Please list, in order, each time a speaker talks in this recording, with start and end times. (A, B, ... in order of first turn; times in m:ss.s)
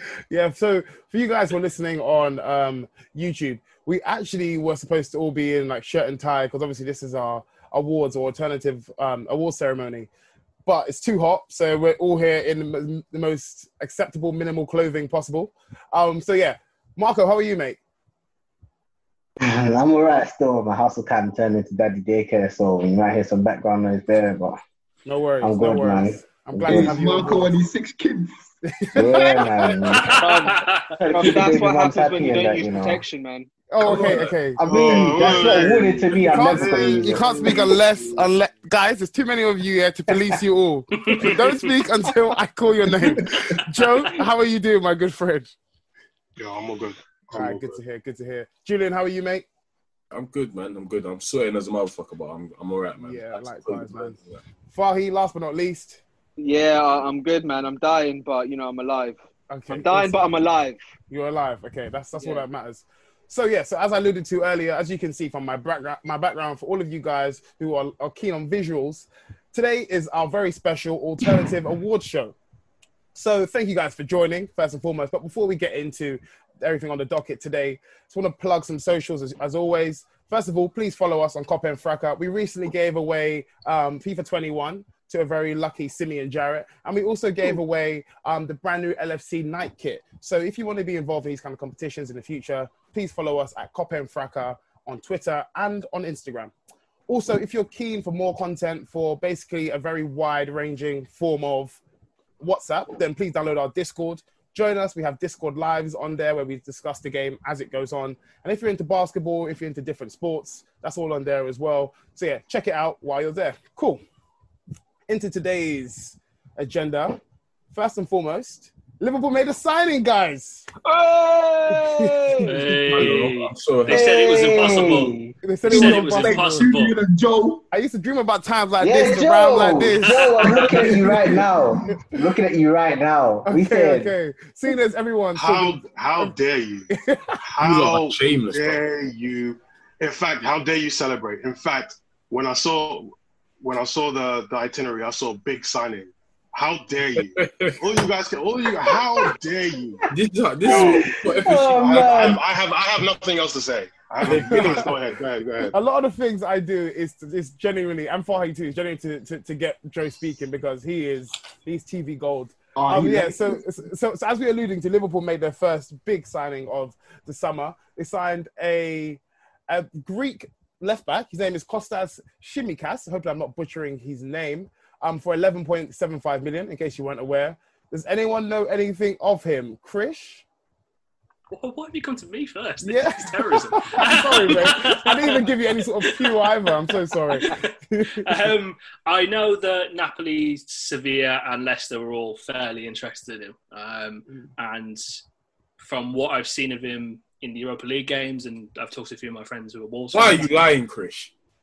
0:00.3-0:10.1 A
0:10.7-0:17.8 A
0:19.4-0:24.6 B
0:25.1-0:27.5 A
0:25.4-0:27.0 B
0:26.6-0:28.5 C
0:28.7-0:30.5 A
0:29.0-0:33.0 B
0:29.6-0:30.9 D
0:30.2-0:33.5 E
0:31.2-0:31.5 A
0:33.7-0:35.7 A
0:33.8-0:37.8 B
0:34.6-0:36.3 F
0:36.2-0:45.6 A
0:41.0-0:41.6 D
0:46.4-0:47.8 F
0:47.3-0:49.4 A
0:50.1-0:54.4 G
0:53.0-0:54.2 A
0:54.7-0:56.0 A
0:56.4-1:00.8 E
0:59.5-1:00.4 A
1:01.1-1:12.4 A
1:02.2-1:02.5 E
1:13.2-1:36.5 A
1:37.1-1:41.8 A
1:42.4-1:54.0 A
1:55.1-1:57.2 A
1:57.7-2:00.7 A
2:00.8-2:02.4 E
2:01.7-2:02.5 A
2:02.5-2:05.2 D
2:02.5-2:04.8 G
2:03.9-2:05.3 B
2:05.4-2:06.7 A
2:05.7-2:07.6 C
2:05.7-2:07.0 D
2:07.7-2:11.1 A
2:08.8-2:14.1 B
2:10.1-2:10.7 D
2:11.1-2:11.8 C
2:13.5-2:16.3 A
2:15.4-2:16.9 F
2:16.9-2:17.4 A
2:17.5-2:30.1 F
2:17.6-2:18.8 G
2:27.2-2:27.9 G
2:30.1-2:32.4 G
2:30.6-2:32.4 B
2:30.7-2:31.2 F
2:31.8-2:35.7 F
2:34.2-2:35.0 G
2:34.3-2:34.8 A
2:35.7-3:00.4 A
2:42.8-2:43.6 C
3:01.5-3:06.5 D
3:02.8-3:08.5 A
3:07.3-3:15.2 D
3:15.8-3:20.5 D
3:20.1-3:21.3 G